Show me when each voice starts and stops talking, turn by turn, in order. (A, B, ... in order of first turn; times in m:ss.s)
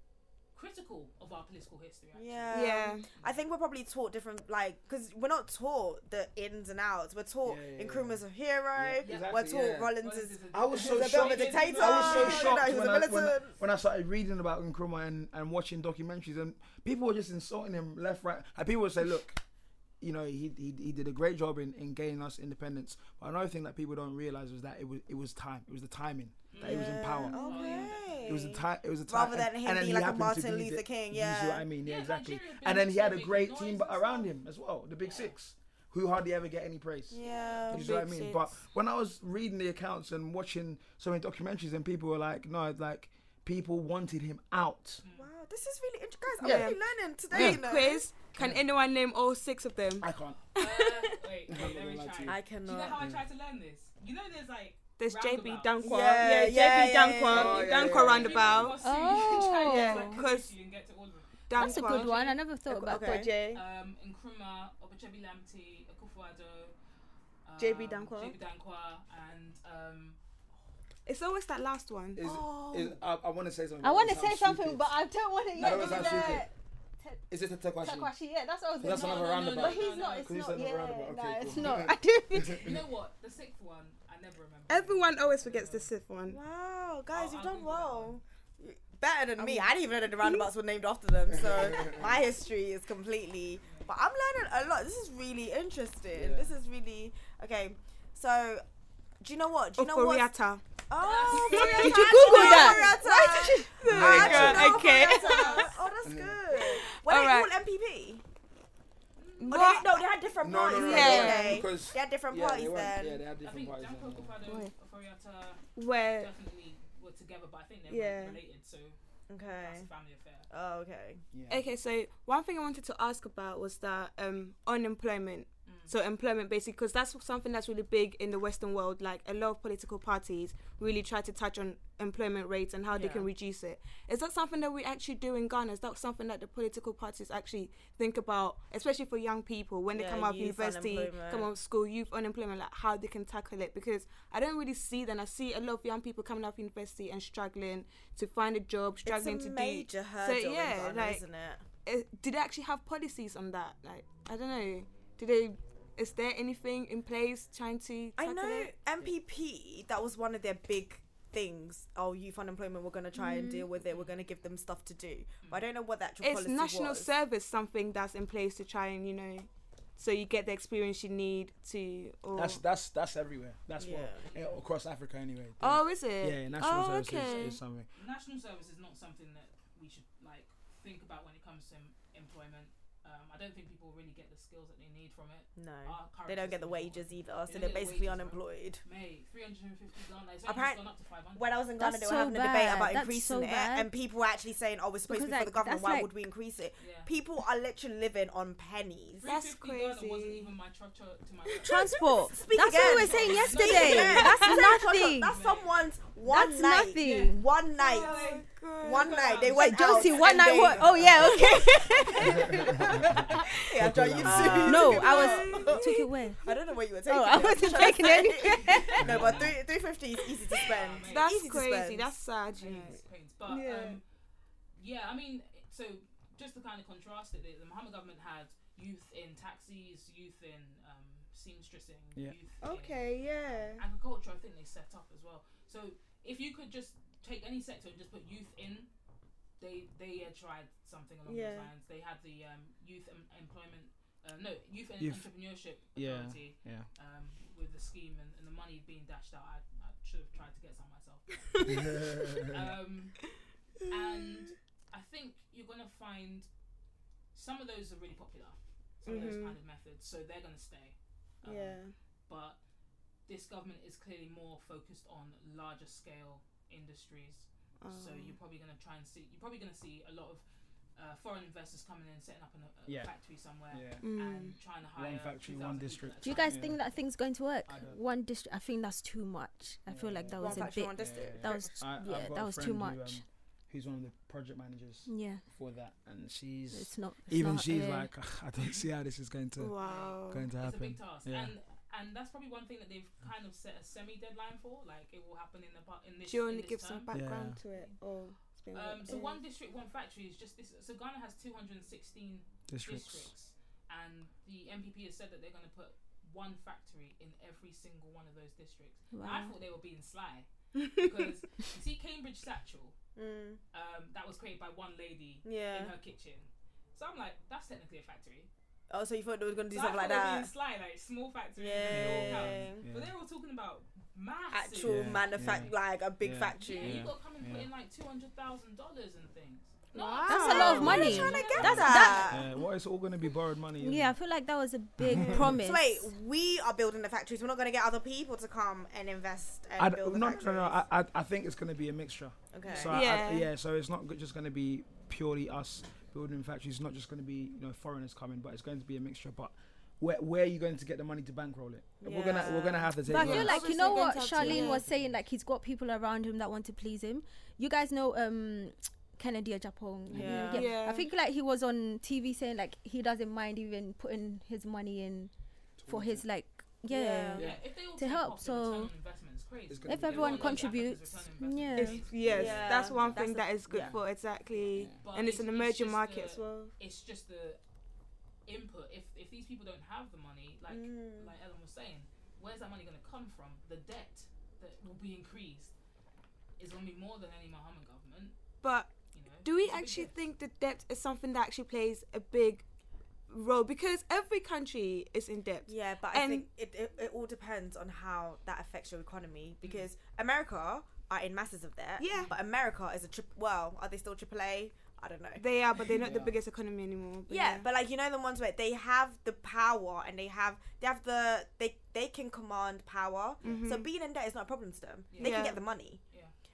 0:00.5-0:02.5 A
0:02.1-0:13.6 B
0:02.5-0:03.0 C
0:03.1-0:03.4 A
0:07.4-0:08.2 D
0:08.7-0:09.9 D
0:09.0-0:09.3 A
0:10.0-0:12.8 A
0:10.5-0:19.4 D
0:20.0-0:45.0 D
0:26.5-0:28.6 A
0:26.6-0:31.7 B
0:31.8-0:34.3 A
0:35.0-0:35.3 A
0:37.1-0:37.8 B
0:37.2-0:37.7 A
0:37.7-0:38.5 C
0:45.0-0:45.3 A
0:45.1-0:48.1 B
0:46.4-0:46.8 C
0:46.4-0:46.7 D
0:47.3-0:47.6 D
0:47.3-0:51.1 C
0:48.4-0:48.6 D
0:50.0-0:50.4 D
0:50.5-0:55.8 A
0:51.5-0:52.4 D
0:52.2-0:53.0 B
0:53.0-0:53.2 D
0:55.0-0:58.8 C
0:55.8-0:58.0 B
0:57.3-0:58.8 D
0:57.8-1:02.4 A
0:58.8-1:00.2 E
0:59.6-1:00.5 C
1:01.5-1:02.1 C
1:01.5-1:03.2 E
1:02.7-1:03.3 B
1:02.8-1:03.6 C
1:03.5-1:06.7 A
1:07.4-1:10.2 A
1:07.6-1:08.4 C
1:11.0-1:12.2 C
1:12.2-1:14.9 D
1:12.2-1:12.9 E
1:13.8-1:17.2 E
1:15.5-1:16.5 D
1:15.6-1:16.4 A
1:17.3-1:18.1 D
1:17.8-1:22.8 E
1:18.8-1:22.8 D
1:18.8-1:20.4 A
1:22.5-1:25.9 A
1:24.7-1:26.4 C
1:26.3-1:38.6 B
1:27.1-1:28.2 A
1:29.4-1:29.7 C
1:31.3-1:32.1 D
1:33.6-1:33.9 A
1:36.1-1:36.5 D
1:39.2-1:40.3 B
1:39.8-1:40.6 C
1:40.9-1:48.2 B
1:41.0-1:42.7 A
1:41.3-1:45.7 C
1:41.5-1:43.7 E
1:43.9-1:44.9 D
1:44.2-1:45.8 A
1:46.0-1:46.5 D
1:46.5-1:47.5 C
1:49.2-1:49.8 A
1:49.4-1:50.0 C
1:49.5-1:53.2 B
1:50.4-1:54.4 D
1:50.7-1:51.6 C
1:50.9-1:51.5 E
1:53.4-1:55.6 A
1:54.4-1:54.7 C
1:55.8-1:56.3 C
1:56.2-1:59.0 A
1:57.9-1:58.4 C
1:59.3-1:59.9 B
1:59.6-2:00.5 A
2:00.5-2:01.2 B
2:01.3-2:01.6 D
2:01.5-2:31.2 C
2:05.6-2:05.9 A
2:12.9-2:13.3 B
2:19.9-2:21.5 B
2:29.0-2:31.6 B
2:31.8-2:38.7 C
2:38.2-2:47.1 B
2:43.2-2:43.7 E
2:43.8-2:44.1 A
2:46.2-2:52.6 C
2:52.3-2:57.9 D
2:53.8-2:54.2 B
2:54.2-2:54.6 A
2:55.6-2:57.6 C
2:57.2-3:11.6 A
3:05.6-3:08.8 B
3:10.4-3:10.8 B
3:11.3-3:19.3 B
3:11.8-3:13.9 E
3:15.1-3:16.1 E
3:16.8-3:17.1 A
3:19.2-3:22.0 A
3:19.2-3:20.5 C
3:21.6-3:25.4 E
3:22.2-3:28.2 B
3:22.7-3:25.8 A
3:26.2-3:27.5 E
3:27.8-3:29.6 C
3:28.0-3:30.8 A
3:28.8-3:42.1 B
3:29.4-3:33.6 E
3:33.8-3:34.9 D
3:34.2-3:35.9 C
3:34.3-3:36.4 E
3:37.1-3:39.2 E
3:38.6-3:39.5 A
3:39.0-3:39.6 D
3:40.6-3:41.4 A
3:41.0-3:44.0 C
3:42.6-3:44.0 A
3:44.8-3:58.9 A
3:52.6-3:53.8 C
3:59.6-4:16.5 A
4:01.2-4:01.7 C
4:05.0-4:05.2 D
4:05.9-4:06.9 D
4:11.7-4:12.6 D
4:13.9-4:14.4 C
4:17.3-4:22.6 A
4:19.0-4:19.6 C
4:21.4-4:21.9 C
4:23.3-4:30.4 A
4:27.8-4:28.4 C
4:31.0-4:36.6 A
4:33.7-4:34.0 D
4:34.0-4:34.6 C
4:35.0-4:36.8 D
4:36.2-4:43.2 E
4:37.6-4:38.0 D
4:39.9-4:49.8 D
4:40.4-4:41.8 B
4:45.0-4:45.4 E
4:46.7-4:48.1 E
4:49.6-4:50.5 C
4:49.8-4:57.1 A
4:50.3-4:51.5 D
4:56.3-4:59.4 C
4:57.1-4:57.6 D
4:58.7-5:12.9 A
5:02.7-5:03.3 D
5:09.1-5:09.5 E
5:13.2-5:13.6 B
5:13.7-5:18.5 A
5:15.4-5:15.9 B
5:18.9-5:20.5 B
5:19.7-5:25.6 A
5:21.6-5:22.8 B
5:21.9-5:23.1 D
5:24.5-5:27.0 B
5:24.8-5:27.7 D
5:26.6-5:32.3 A
5:29.9-5:31.2 C
5:30.2-5:32.4 E
5:30.3-5:32.4 B
5:31.1-5:34.1 D
5:33.8-5:36.1 E
5:35.0-5:35.6 D
5:35.5-5:40.8 B
5:39.8-5:53.6 D
5:42.5-5:43.0 B
5:42.6-5:42.9 A
5:42.9-5:43.5 C
5:52.0-5:53.0 B
5:53.0-6:05.3 E
5:53.1-5:54.8 C
5:54.3-5:55.2 D
6:00.1-6:00.6 D
6:00.1-6:00.7 B
6:00.5-6:01.1 C
6:05.8-6:06.2 D
6:05.9-6:08.9 E
6:06.9-6:07.5 B
6:07.3-6:12.8 A
6:09.7-6:10.8 D
6:09.8-6:12.0 E
6:11.8-6:16.7 C
6:12.1-6:14.0 D
6:12.3-6:13.5 B
6:14.5-6:17.6 A
6:14.7-6:15.0 D
6:18.4-6:25.7 A
6:20.7-6:21.3 B
6:26.6-6:28.4 A
6:28.6-6:28.9 C
6:29.1-6:30.2 A
6:29.4-6:32.6 C
6:33.3-6:36.4 C
6:35.7-6:45.4 B
6:39.6-6:39.9 A
6:42.0-6:42.3 C
6:45.4-6:47.6 C
6:46.0-6:46.4 D
6:47.3-6:56.0 B
6:53.4-6:53.9 C
6:55.1-6:55.6 A
6:55.2-6:55.6 C